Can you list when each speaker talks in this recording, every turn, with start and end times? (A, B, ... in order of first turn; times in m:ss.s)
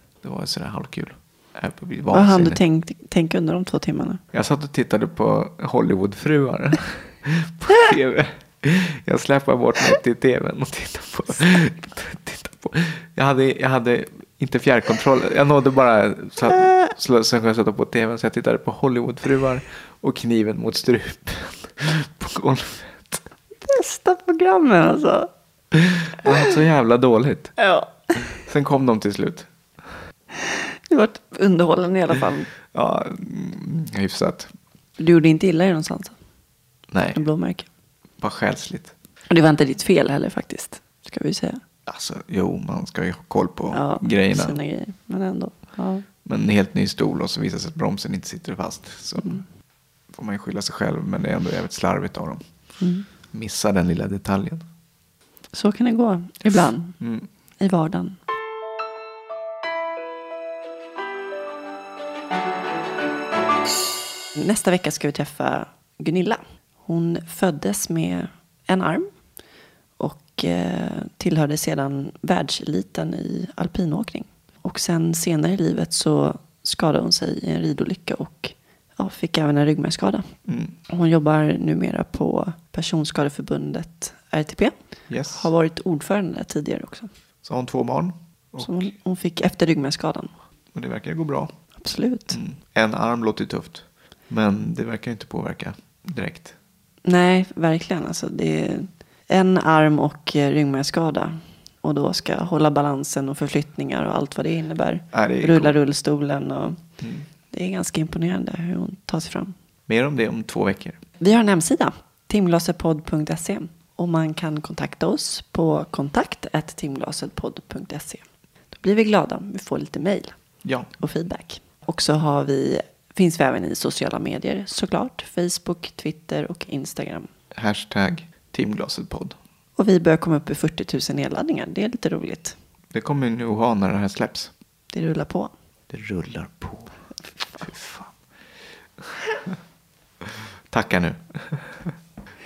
0:00.2-0:02.6 A
0:02.1-0:04.2 B
0:04.3-0:23.2 A
0:23.6-0:25.3 B
0:25.8-0:27.6 A
0:27.6-0:28.4 B
0:28.3-0:29.9 A
0:30.9-0:32.5 B
0:32.7-0:34.5 A
0:35.0-0:36.2 B
0:36.9-0:37.3 A
0:37.1-0:37.7 B
0:38.2-0:38.9 A
0:39.3-0:41.6 B
0:41.9-0:44.6 A
0:43.7-0:46.0 B
0:46.2-0:49.6 A
0:49.2-0:49.4 B
0:50.1-0:52.7 A
0:52.8-0:53.1 B
0:53.3-0:54.6 A
0:55.5-0:57.0 B
0:56.5-0:57.3 A
0:57.6-0:58.2 B
1:04.3-1:09.4 B
1:10.0-1:27.1 B
1:20.4-1:20.8 A
1:25.1-1:25.5 A
1:27.4-1:28.9 A
1:28.6-1:30.3 B
1:30.7-1:36.5 A
1:31.8-1:32.4 B
1:37.0-1:49.5 B
1:45.1-1:45.8 A
1:47.0-1:47.3 A
1:49.9-1:51.0 A
1:51.2-1:58.2 B
1:58.8-2:07.3 B
2:00.6-2:00.9 A
2:07.5-2:09.4 A
2:09.8-2:12.6 B
2:12.9-2:14.5 A
2:14.9-2:15.5 B
2:15.9-2:18.1 A
2:20.7-2:21.9 A